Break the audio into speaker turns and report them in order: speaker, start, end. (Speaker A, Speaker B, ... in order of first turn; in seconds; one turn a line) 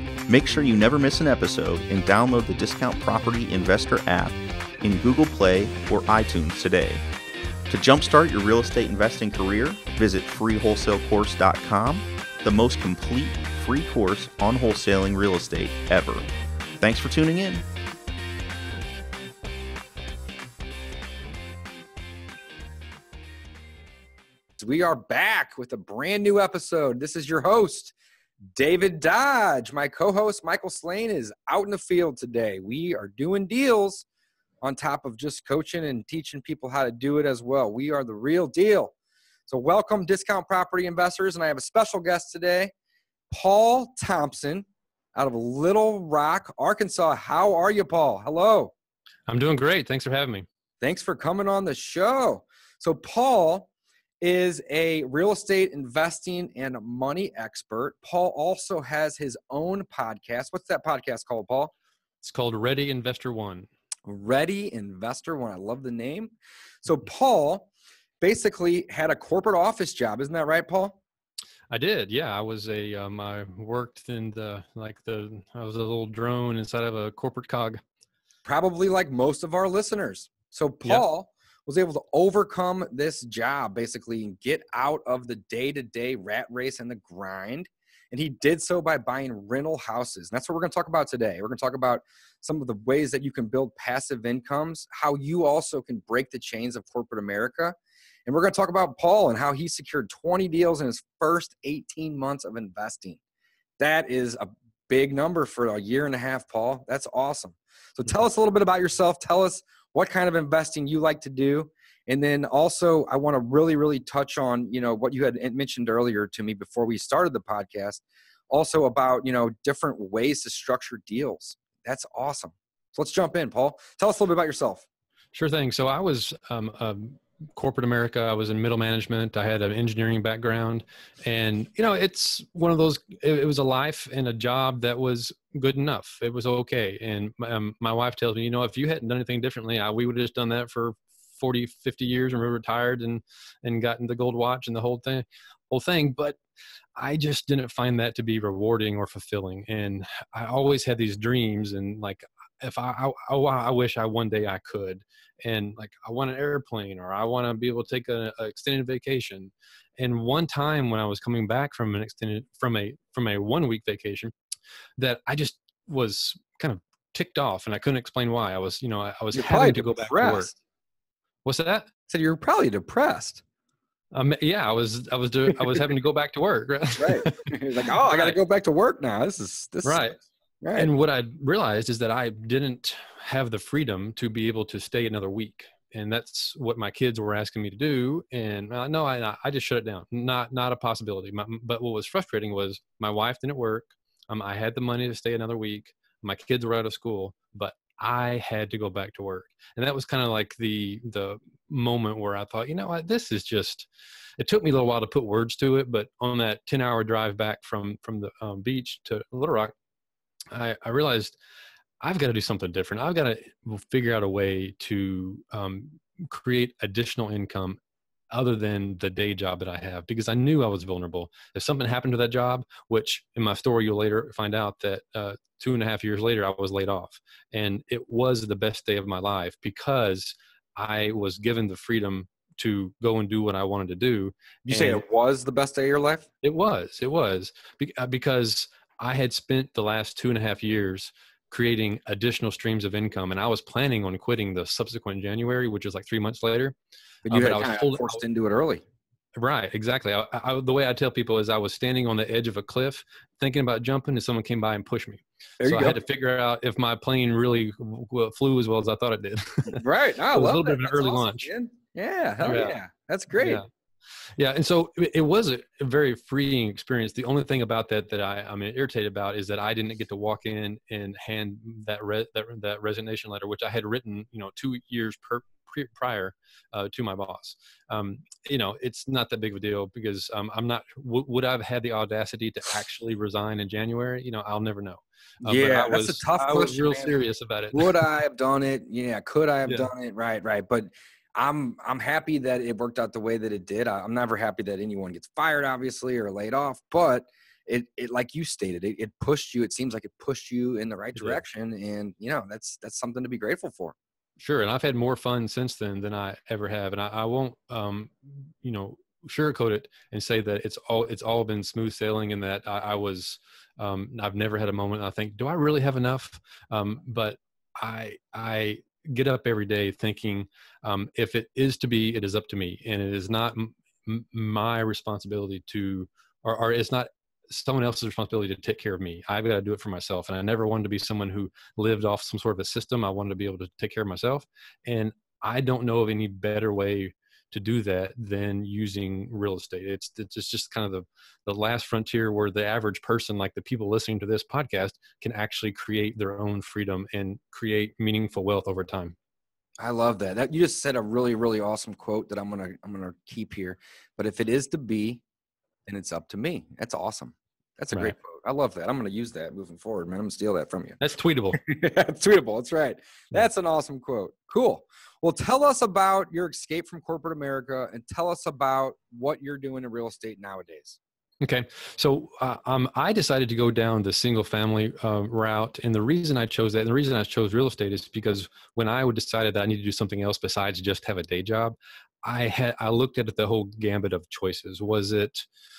Speaker A: 0.3-7.0
Speaker A: 7.7-16.3
Speaker A: 16.8-17.6
Speaker B: 24.6-27.9
Speaker B: 28.5-34.0
Speaker B: 34.6-38.9
Speaker B: 39.5-42.7
Speaker B: 43.3-48.7
Speaker C: 49.3-50.5
Speaker B: 50.8-53.7
Speaker B: 54.2-61.7
Speaker C: 62.2-63.7
Speaker B: 64.0-66.3
Speaker B: 66.8-67.7
Speaker B: 68.2-71.0
Speaker C: 71.7-77.8
Speaker B: 78.4-103.2
Speaker B: 103.8-124.8
Speaker C: 125.3-146.4
Speaker C: 146.9-164.3
Speaker C: 165.0-170.6
Speaker B: 169.3-170.5
Speaker C: 171.4-171.9
Speaker B: 172.1-173.4
Speaker C: 174.1-178.4
Speaker B: 175.5-175.8
Speaker B: 177.0-180.0
Speaker C: 179.8-180.2
Speaker B: 180.6-180.9
Speaker C: 180.7-203.9
Speaker C: 204.4-209.7
Speaker C: 210.5-211.4
Speaker C: 212.0-217.8
Speaker C: 218.3-235.0
Speaker B: 234.7-236.3
Speaker C: 236.4-246.7
Speaker C: 247.2-248.2
Speaker B: 247.2-248.8
Speaker C: 249.4-261.5
Speaker B: 255.6-256.0
Speaker B: 259.7-263.6
Speaker C: 262.4-262.8
Speaker C: 263.4-263.6
Speaker C: 264.4-288.0
Speaker B: 285.4-287.2
Speaker B: 287.7-303.9
Speaker C: 301.1-301.4
Speaker C: 304.4-349.1
Speaker B: 349.8-355.2
Speaker B: 355.9-361.0
Speaker C: 361.0-361.6
Speaker B: 361.6-371.0
Speaker C: 371.4-385.4